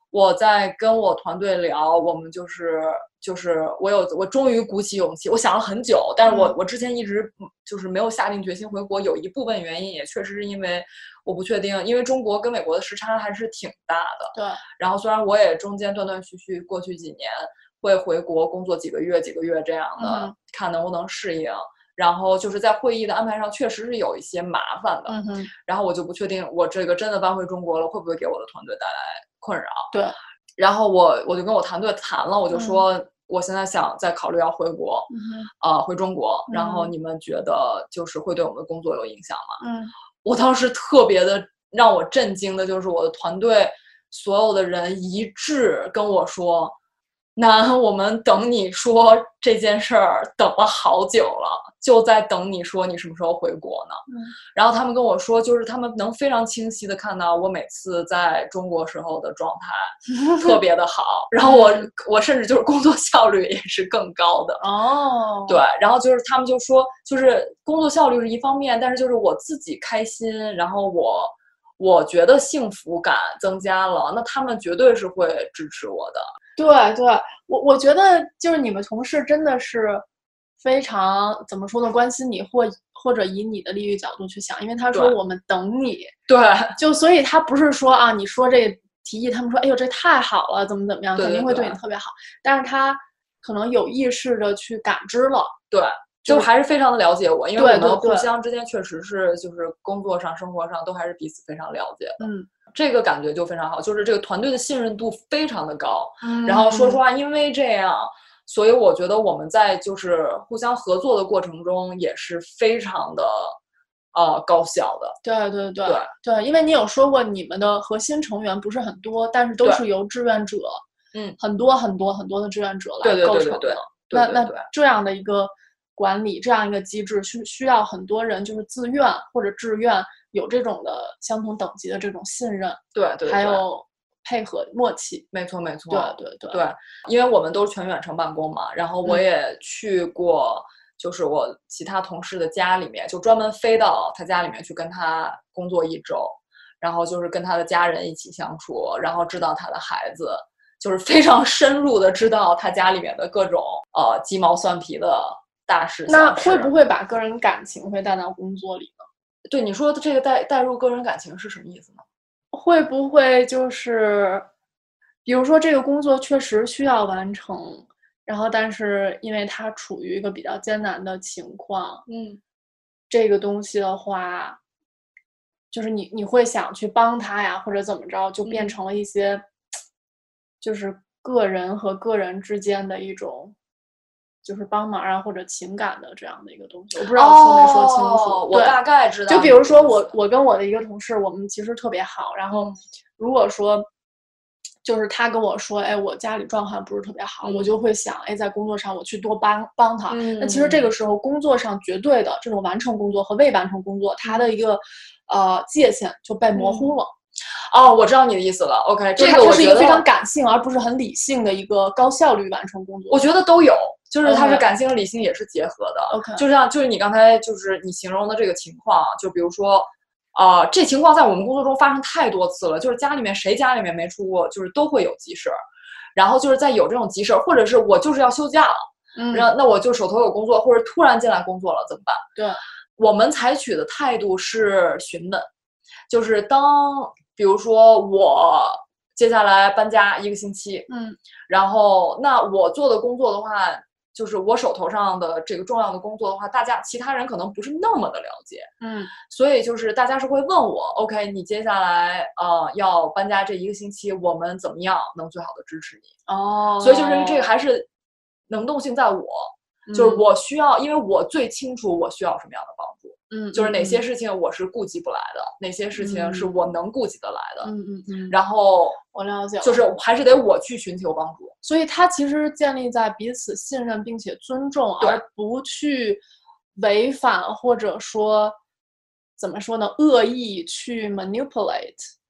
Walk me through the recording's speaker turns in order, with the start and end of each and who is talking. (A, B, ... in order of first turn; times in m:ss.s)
0:00.1-0:29.9 A
0:06.3-0:06.5 B
0:14.3-0:14.6 B
0:20.0-0:20.3 B
0:25.1-0:25.5 B
0:30.6-0:39.6 A
0:32.5-0:32.8 B
0:35.1-0:35.5 B
0:36.5-0:36.9 B
0:39.6-0:39.9 B
0:40.2-0:46.8 A
0:47.4-1:04.6 A
0:54.1-0:54.3 B
1:00.2-1:00.5 B
1:01.4-1:01.9 B
1:04.6-1:05.6 B
1:05.5-1:16.3 A
1:16.6-1:20.0 B
1:20.6-1:26.2 B
1:26.3-1:26.8 A
1:26.8-1:35.6 B
1:31.2-1:31.8 A
1:35.7-1:53.6 A
1:37.6-1:38.3 B
1:42.2-1:42.5 B
1:46.2-1:47.0 B
1:54.1-1:55.2 A
1:55.2-2:00.8 B
1:55.8-1:56.1 A
2:01.4-2:15.3 B
2:03.0-2:04.7 A
2:13.0-2:13.6 A
2:15.3-2:36.7 A
2:15.9-2:16.6 B
2:36.1-2:39.1 B
2:39.5-2:42.0 A
2:42.5-2:44.5 B
2:45.2-2:52.1 B
2:52.1-2:52.4 A
2:53.1-2:54.6 B
2:55.7-2:59.4 B
2:58.4-2:58.8 A
3:00.6-3:03.6 B
3:04.4-3:13.9 B
3:07.1-3:10.2 A
3:14.8-3:27.1 B
3:17.4-3:17.7 A
3:20.1-3:20.9 A
3:26.6-3:27.0 A
3:27.7-3:30.1 A
3:29.2-3:33.3 B
3:33.1-3:45.6 A
3:34.2-3:34.7 B
3:36.1-3:36.4 B
3:46.2-3:52.3 A
3:49.2-3:49.5 B
3:52.4-3:52.6 B
3:53.0-3:55.5 A
3:56.1-4:00.9 A
4:00.9-4:01.2 B
4:01.5-4:08.7 A
4:08.8-4:09.1 B
4:09.2-4:16.2 A
4:16.3-4:17.5 B
4:16.8-4:17.9 A
4:18.5-4:27.7 A
4:19.9-4:20.3 B
4:23.3-4:24.0 B
4:26.0-4:26.7 B
4:27.6-4:28.4 B
4:28.3-4:29.0 A
4:29.1-4:29.8 B
4:29.6-4:31.6 A
4:31.6-4:36.2 B
4:36.8-4:38.6 B
4:39.4-4:42.1 B